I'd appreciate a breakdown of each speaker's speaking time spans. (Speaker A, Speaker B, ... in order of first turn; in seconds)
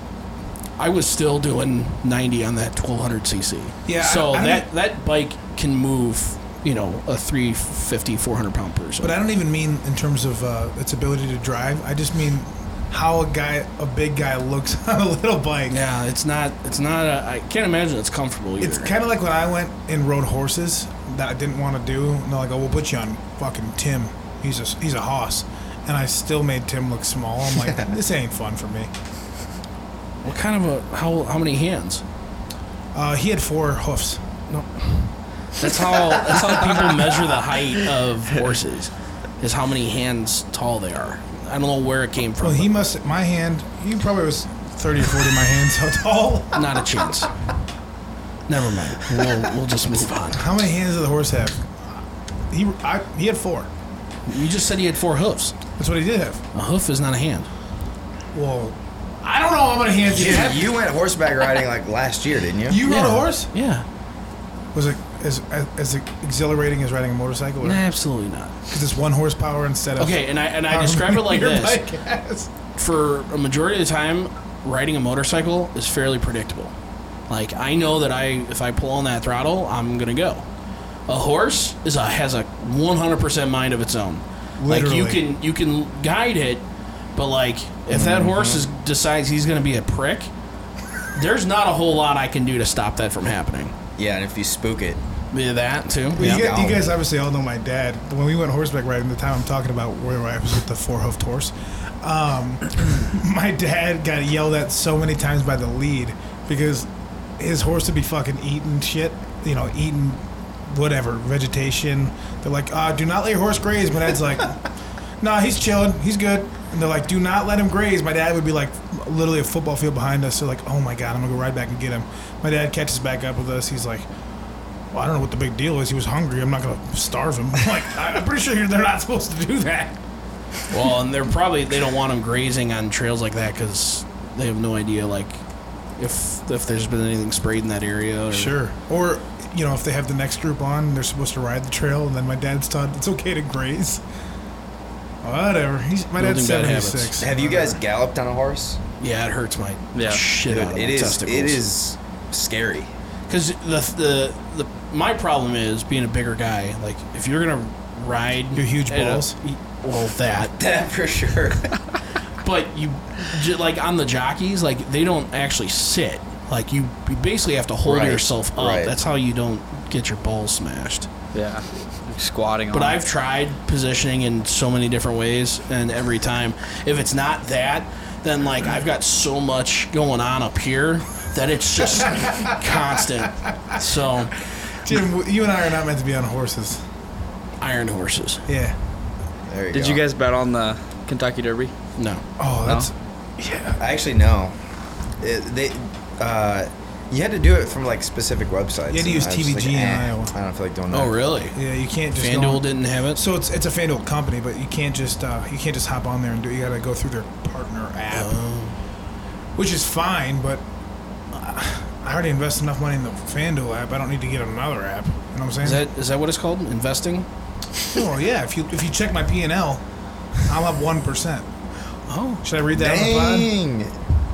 Speaker A: 0.8-9.1, 15.7-18.9, 30.2-32.0, 34.5-42.7, 46.5-47.3, 48.5-50.4, 54.3-55.6, 56.5-57.5, 62.9-63.9, 67.6-68.6, 70.0-71.8, 72.8-76.7, 77.3-80.5, 81.1-86.7, 87.2-90.3, 91.1-93.7, 95.3-96.5, 130.7-135.4, 136.0-138.6, 146.2-147.2, 149.0-151.6, 153.3-160.5, 162.4-171.1, 172.7-184.3, 187.6-188.4, 192.0-192.2, 200.9-201.6, 202.2-203.2, 208.1-208.8, 215.6-217.3, 222.1-222.4
Speaker B: 3.9-4.7, 9.0-15.8, 18.6-28.9, 32.9-34.3, 42.4-46.8, 50.3-53.7, 55.8-56.4, 58.3-60.8, 62.7-63.5, 64.7-67.8, 68.7-72.5, 84.6-85.2, 96.2-114.6, 115.2-124.1, 124.9-130.0, 138.3-144.0, 145.2-147.8, 158.6-159.4, 182.1-182.5, 184.8-186.8, 188.5-188.8, 192.4-193.8, 198.9-200.3, 201.6-208.3, 209.6-210.6, 211.3-215.8, 217.9-219.8, 220.4-221.5, 222.4-223.5
Speaker C: 60.1-62.8, 87.9-88.7, 94.0-95.0, 96.1-96.9, 147.2-148.8, 150.5-152.9, 160.6-161.8, 167.8-168.9, 189.5-190.0, 193.8-194.6, 195.2-201.2, 222.7-223.9
Speaker D: 149.9-150.2, 171.3-173.0, 189.7-191.7, 192.7-192.9